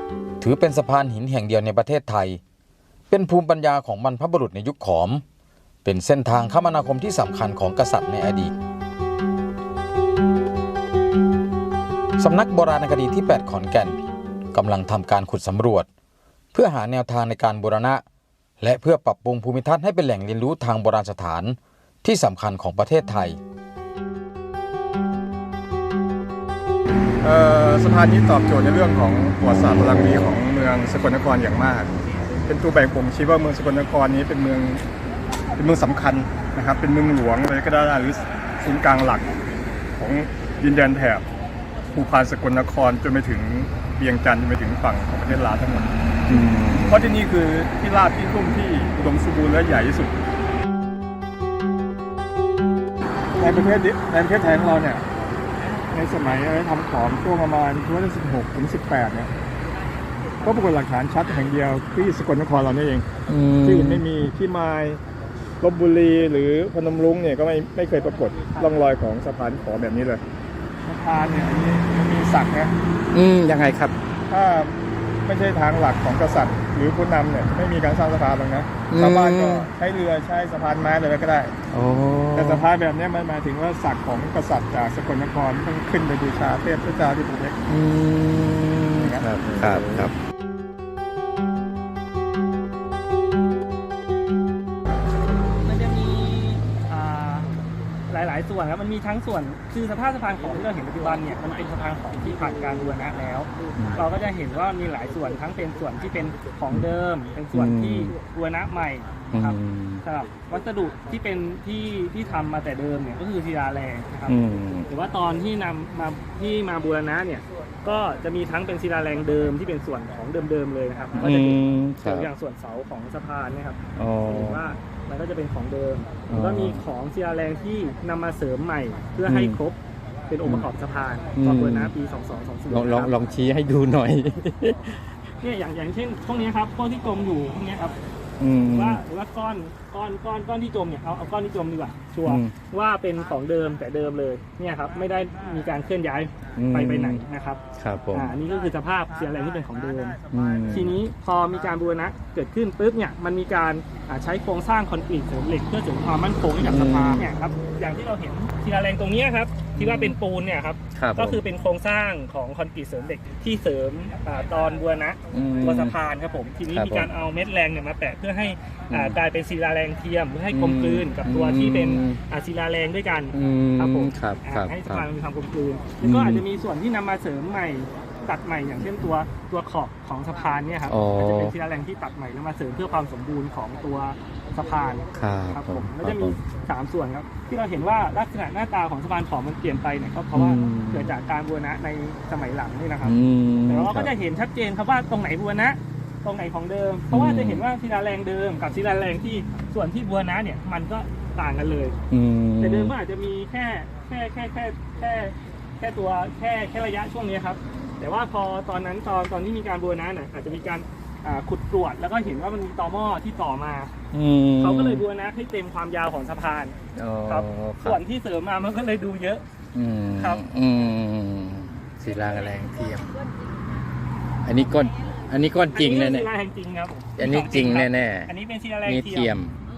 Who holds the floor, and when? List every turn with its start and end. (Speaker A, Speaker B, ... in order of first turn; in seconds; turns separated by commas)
Speaker A: 0.4-2.4, Speaker A: 3.1-5.2, Speaker A: 5.8-8.5, Speaker A: 12.2-14.0, Speaker A: 14.5-15.9, Speaker A: 16.5-18.0, Speaker A: 18.6-23.4, Speaker B: 27.2-31.9, Speaker B: 32.5-34.8, Speaker B: 35.6-39.3, Speaker B: 40.0-41.3, Speaker B: 41.9-45.9, Speaker C: 46.3-47.0, Speaker B: 46.8-50.1, Speaker B: 53.4-55.0, Speaker B: 55.9-59.3, Speaker B: 60.4-63.1, Speaker C: 63.3-64.0, Speaker B: 63.6-65.0, Speaker B: 65.6-70.2, Speaker B: 70.9-72.8, Speaker C: 73.1-74.0, Speaker B: 74.3-81.6, Speaker C: 78.9-79.7, Speaker C: 81.7-82.7, Speaker B: 82.3-87.6, Speaker C: 87.7-90.1, Speaker B: 88.9-90.1, Speaker D: 95.6-97.5, Speaker D: 98.1-129.8, Speaker C: 107.5-108.2, Speaker C: 109.3-110.0, Speaker C: 114.3-114.9, Speaker C: 121.2-122.3, Speaker C: 124.0-124.6, Speaker C: 126.3-126.8, Speaker C: 129.3-129.6, Speaker D: 130.3-133.1, Speaker C: 131.4-131.9, Speaker C: 132.7-135.0, Speaker D: 135.4-137.9, Speaker C: 138.4-139.0, Speaker D: 138.7-147.6, Speaker C: 142.3-142.5, Speaker C: 146.6-147.2, Speaker C: 147.8-148.3, Speaker D: 148.1-202.0, Speaker C: 150.3-150.9, Speaker C: 156.6-157.3, Speaker C: 159.8-160.2, Speaker C: 160.9-161.4, Speaker C: 165.3-165.9, Speaker C: 166.7-167.1, Speaker C: 168.9-169.2, Speaker C: 170.5-172.2, Speaker C: 173.3-175.1, Speaker C: 176.0-176.4, Speaker C: 180.9-181.6, Speaker C: 185.2-186.3, Speaker C: 190.3-191.1, Speaker C: 193.0-194.1, Speaker C: 197.1-197.6, Speaker C: 202.1-202.9, Speaker D: 202.6-213.9, Speaker C: 214.1-215.0, Speaker D: 214.6-216.8, Speaker C: 216.9-218.0, Speaker D: 217.3-219.4, Speaker C: 219.7-223.3, Speaker D: 220.1-220.4, Speaker C: 224.4-226.3, Speaker D: 225.7-229.4, Speaker C: 227.2-228.3, Speaker C: 228.8-229.6